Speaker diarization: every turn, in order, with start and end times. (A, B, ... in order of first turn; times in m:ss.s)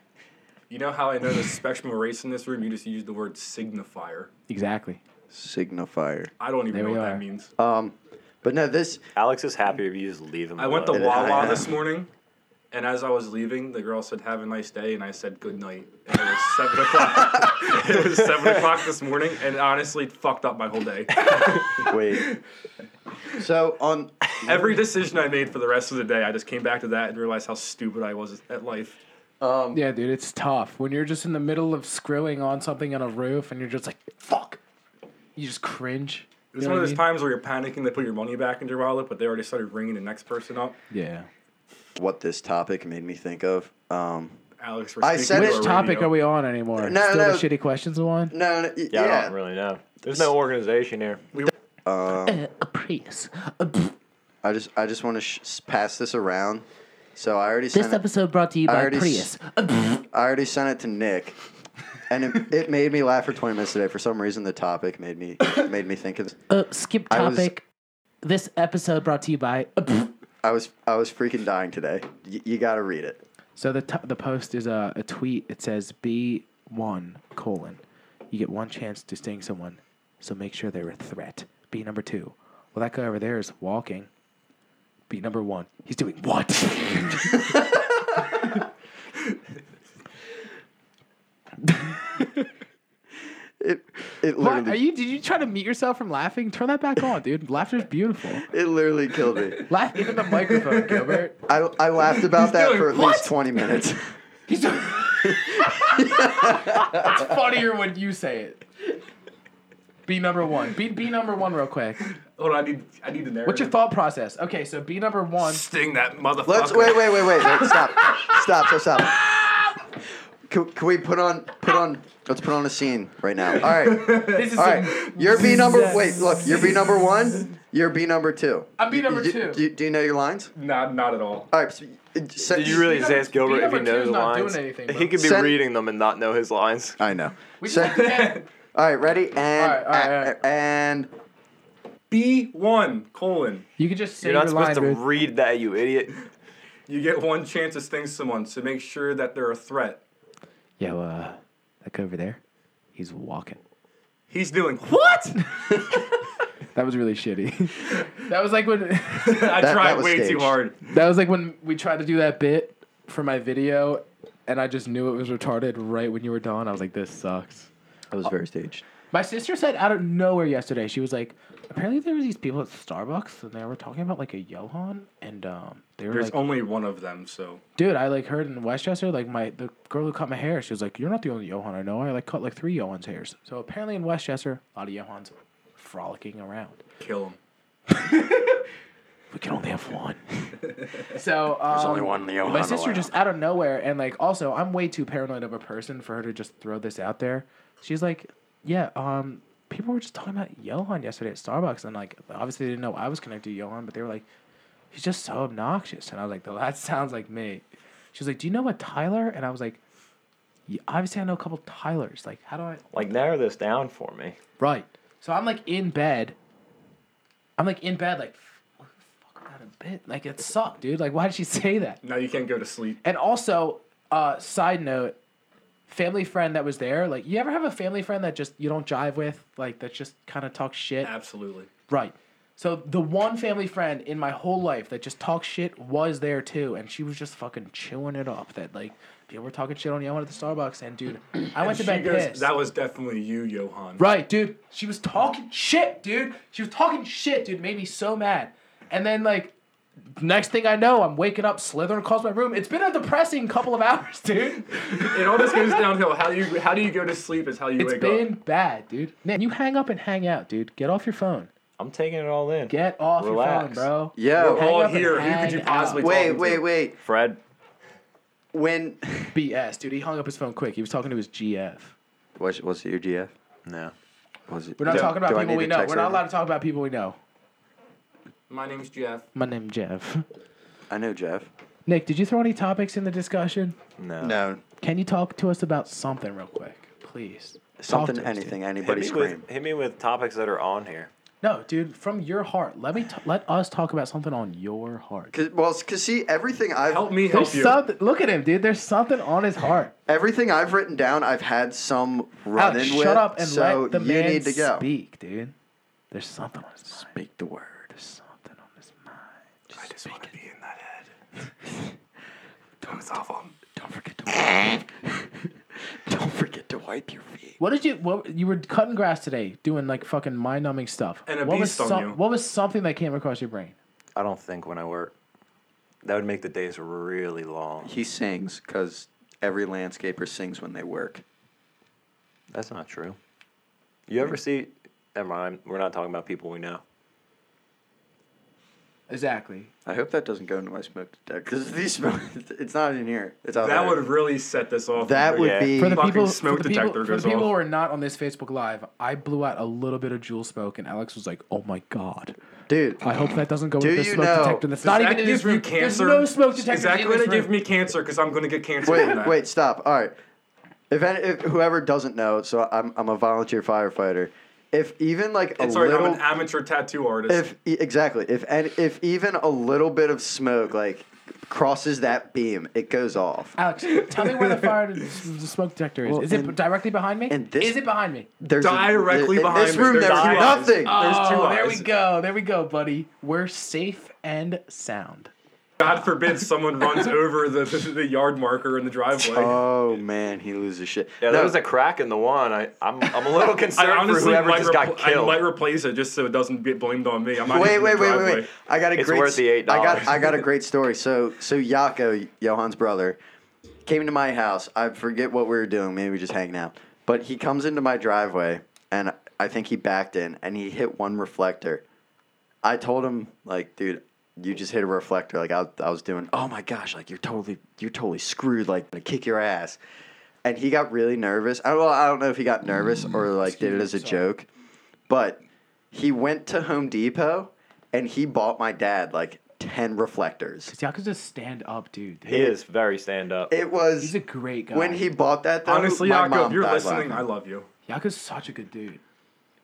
0:00.7-0:04.3 A
0:04.5-0:05.0 B
0:05.3-0:06.3 C
0:06.4-0:07.5 A
0:06.7-0:07.2 B
0:07.6-0:09.0 C
0:09.1-0:11.6 D
0:10.6-0:12.1 A
0:10.9-0:11.7 C
0:12.7-0:22.2 A
0:21.8-0:22.3 C
0:23.3-0:24.7 C
0:24.4-0:29.0 A
0:29.4-0:29.8 C
0:29.7-0:34.6 B
0:35.4-0:37.0 B
0:36.5-0:40.8 A
0:40.9-0:41.3 B
0:42.0-0:44.4 C
0:44.6-0:46.1 A
0:45.0-0:45.8 C
0:45.3-0:48.3 B
0:46.8-0:47.5 C
0:48.3-0:49.3 C
0:48.9-0:51.2 D
0:51.8-0:52.4 C
0:52.2-0:53.9 B
0:54.4-0:56.6 C
0:57.2-0:58.0 C
0:57.7-1:00.0 B
0:58.6-0:59.3 C
1:00.1-1:01.4 C
1:02.1-1:06.4 C
1:06.5-1:07.6 B
1:07.1-1:07.5 C
1:08.2-1:10.1 B
1:10.4-1:13.2 C
1:13.6-1:24.1 B
1:25.1-1:27.6 B
1:31.7-1:32.4 B
1:33.6-1:34.8 C
1:34.4-1:38.5 B
1:38.4-1:39.6 C
1:39.7-1:41.3 B
1:40.3-1:41.2 A
1:41.5-1:44.1 C
1:42.1-1:43.3 A
1:44.5-1:48.6 B
1:45.2-1:47.3 C
1:50.1-1:52.0 B
1:52.4-1:53.7 A
1:53.4-1:55.6 B
1:55.4-1:57.8 A
1:56.4-1:59.5 C
2:00.5-2:10.5 C
2:03.6-2:06.0 A
2:04.3-2:06.8 B
2:08.8-2:09.6 B
2:10.6-2:11.5 A
2:11.5-2:12.9 C
2:12.4-2:17.0 D
2:12.6-2:15.2 B
2:15.2-2:15.6 C
2:17.0-2:18.2 C
2:17.6-2:18.4 B
2:17.9-2:18.4 A
2:18.7-2:21.1 C
2:19.6-2:20.4 B
2:22.1-2:23.7 A
2:23.8-2:25.0 B
2:24.2-2:26.2 D
2:26.9-2:30.0 A
2:30.8-2:32.4 B
2:32.9-2:33.6 B
2:34.3-2:35.0 A
2:34.8-2:36.2 B
2:36.7-2:39.5 B
2:39.2-2:40.8 A
2:39.6-2:40.6 C
2:40.8-2:47.7 B
2:48.1-2:48.8 C
2:49.1-2:56.4 B
2:56.1-2:57.6 A
2:57.8-3:06.8 B
3:07.0-3:07.4 A
3:07.9-3:08.6 B
3:09.3-3:24.2 B
3:11.7-3:13.1 C
3:24.9-3:29.8 B
3:30.7-3:32.9 B
3:32.9-3:34.4 D
3:34.6-3:36.3 B
3:37.6-3:42.0 B
3:42.0-3:43.0 A
3:43.0-3:45.2 B
3:45.9-3:51.1 B
3:51.0-3:51.7 A
3:51.9-4:02.5 B
4:01.5-4:04.0 A
4:04.0-4:09.5 B
4:10.2-4:15.7 B
4:14.9-4:18.3 A
4:17.8-4:21.5 B
4:21.8-4:23.9 D
4:22.7-4:26.2 B
4:24.2-4:24.7 C
4:24.4-4:26.6 A
4:26.0-4:26.9 C
4:27.0-4:27.4 D
4:28.5-4:29.4 C
4:29.3-4:31.9 B
4:32.4-4:33.3 C
4:33.7-4:33.9 D
4:34.5-4:36.2 C
4:34.8-4:37.2 B
4:38.5-4:39.3 A
4:39.3-4:40.2 B
4:40.9-4:41.5 C
4:41.8-4:43.8 B
4:44.0-4:44.4 D
4:44.2-4:44.6 C
4:44.8-4:48.6 B
4:47.8-4:49.4 C
4:48.8-4:51.1 D
4:51.4-4:55.3 B
4:55.3-4:57.1 C
4:56.9-4:57.8 A
4:57.3-4:59.9 B
5:00.1-5:04.8 C
5:02.6-5:05.5 B
5:06.1-5:07.1 B
5:07.0-5:07.9 C
5:07.9-5:09.3 B
5:09.8-5:11.1 A
5:12.8-5:13.6 A
5:13.7-5:15.4 C
5:15.9-5:17.6 C
5:17.6-5:23.7 B
5:21.3-5:22.2 A
5:24.2-5:25.1 D
5:26.0-5:27.9 D
5:27.8-5:31.2 C
5:32.5-5:33.2 D
5:34.1-5:36.8 D
5:39.1-5:39.7 B
5:39.8-5:44.1 C
5:43.6-5:47.5 A
5:45.0-5:46.1 C
5:45.4-5:45.7 D
5:45.8-5:52.3 B
5:52.7-5:53.0 C
5:53.0-5:57.5 B
5:53.8-5:54.7 C
5:54.8-5:59.4 A
5:58.8-6:00.2 C
6:00.9-6:06.2 C
6:05.6-6:07.4 A
6:07.3-6:13.6 C
6:13.6-6:18.3 B
6:13.9-6:14.8 A
6:16.0-6:16.6 C
6:17.3-6:17.8 C
6:18.4-6:21.0 C
6:18.6-6:21.9 A
6:19.8-6:20.7 D
6:20.8-6:25.3 B
6:25.8-6:29.6 A
6:25.8-6:26.2 B
6:29.2-6:31.6 C
6:31.2-6:35.4 D
6:33.7-6:38.5 A
6:37.4-6:43.2 C
6:39.0-6:40.4 D
6:43.8-6:51.8 C
6:52.6-6:59.8 C
7:00.4-7:04.5 C
7:03.4-7:04.2 B
7:05.1-7:05.4 C
7:05.9-7:10.7 C
7:10.7-7:12.5 B
7:12.3-7:13.5 D
7:13.5-7:14.2 C
7:14.0-7:15.1 B
7:14.7-7:17.3 C
7:15.7-7:17.7 A
7:17.9-7:19.0 B